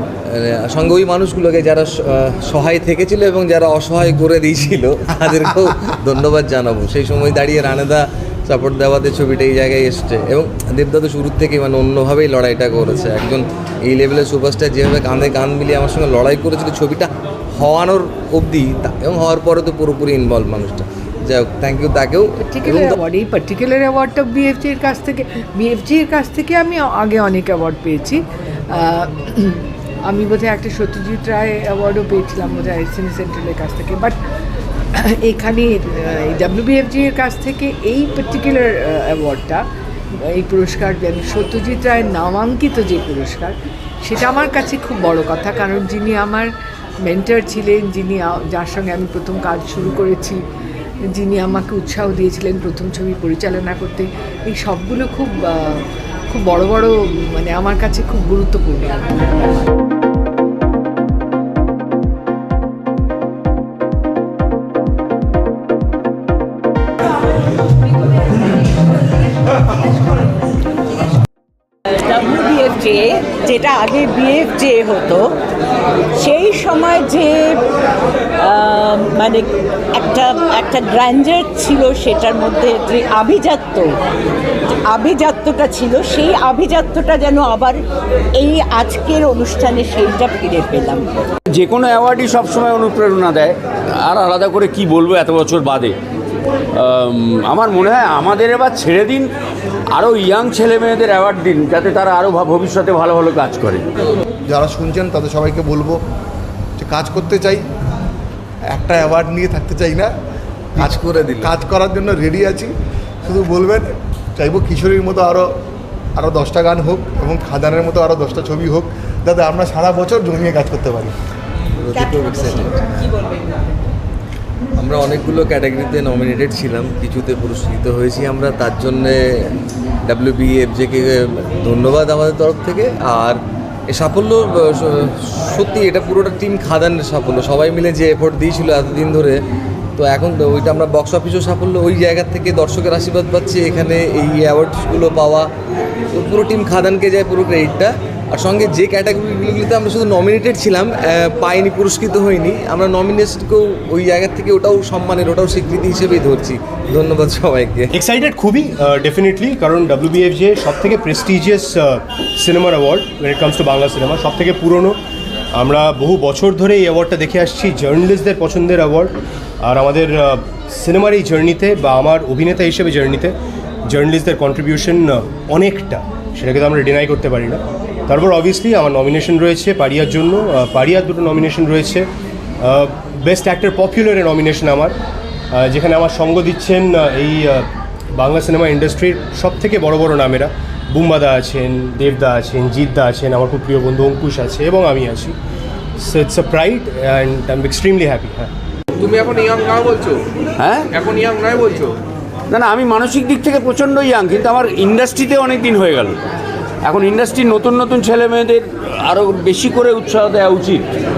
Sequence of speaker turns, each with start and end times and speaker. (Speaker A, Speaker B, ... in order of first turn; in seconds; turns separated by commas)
Speaker A: 0.3-23.0, Speaker B: 22.4-34.2, Speaker B: 35.0-39.6, Speaker B: 40.1-46.5, Speaker B: 47.0-50.4, Speaker B: 51.1-59.1, Speaker C: 72.1-75.3, Speaker C: 76.2-77.6, Speaker C: 78.4-83.9, Speaker C: 84.9-91.1, Speaker D: 91.5-96.0, Speaker D: 96.8-99.3, Speaker D: 99.9-103.8, Speaker E: 104.5-106.0, Speaker E: 106.8-107.6, Speaker E: 108.7-110.1, Speaker A: 110.8-111.5, Speaker E: 110.8-112.7, Speaker E: 113.2-115.5, Speaker E: 116.2-121.1, Speaker A: 121.8-123.4, Speaker A: 124.8-129.5, Speaker A: 130.1-139.4, Speaker A: 140.0-145.5, Speaker A: 146.1-157.9, Speaker F: 157.9-165.0, Speaker F: 165.6-173.3, Speaker F: 173.9-182.1, Speaker F: 182.6-184.9, Speaker F: 185.6-187.7, Speaker F: 188.2-195.3, Speaker F: 196.0-198.5, Speaker G: 199.0-200.2, Speaker D: 200.6-200.9, Speaker G: 201.0-201.9, Speaker D: 202.5-206.2, Speaker D: 206.8-210.9